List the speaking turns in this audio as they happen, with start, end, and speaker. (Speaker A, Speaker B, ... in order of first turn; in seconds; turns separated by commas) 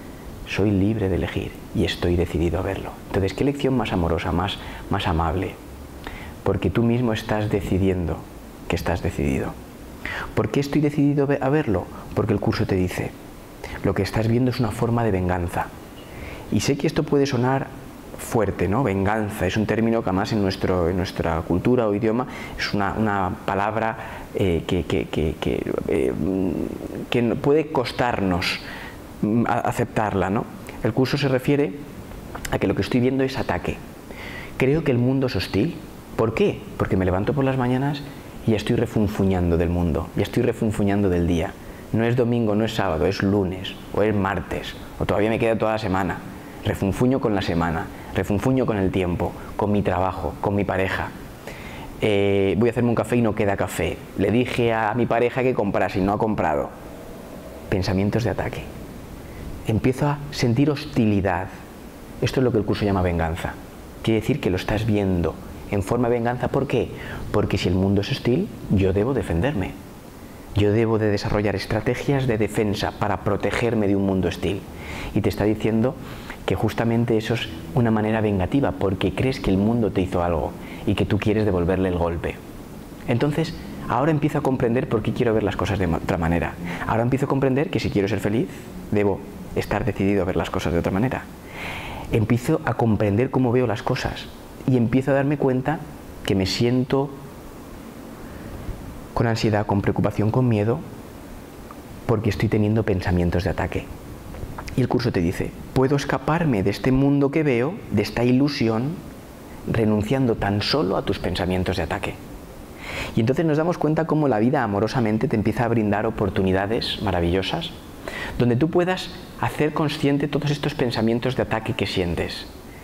Speaker A: 0.5-5.6, Speaker A: 6.4-9.6, Speaker A: 10.3-13.1, Speaker A: 13.8-15.7, Speaker A: 16.5-28.6, Speaker A: 29.2-31.8, Speaker A: 32.5-33.8, Speaker A: 34.6-51.1, Speaker A: 52.0-56.7, Speaker A: 57.7-58.7, Speaker A: 59.7-61.5, Speaker A: 62.2-69.8, Speaker A: 70.5-82.4, Speaker A: 83.1-91.3, Speaker A: 92.1-97.2, Speaker A: 99.1-100.8, Speaker A: 102.1-103.9, Speaker A: 104.8-109.0, Speaker A: 109.7-112.2, Speaker A: 113.2-117.7, Speaker A: 118.4-122.5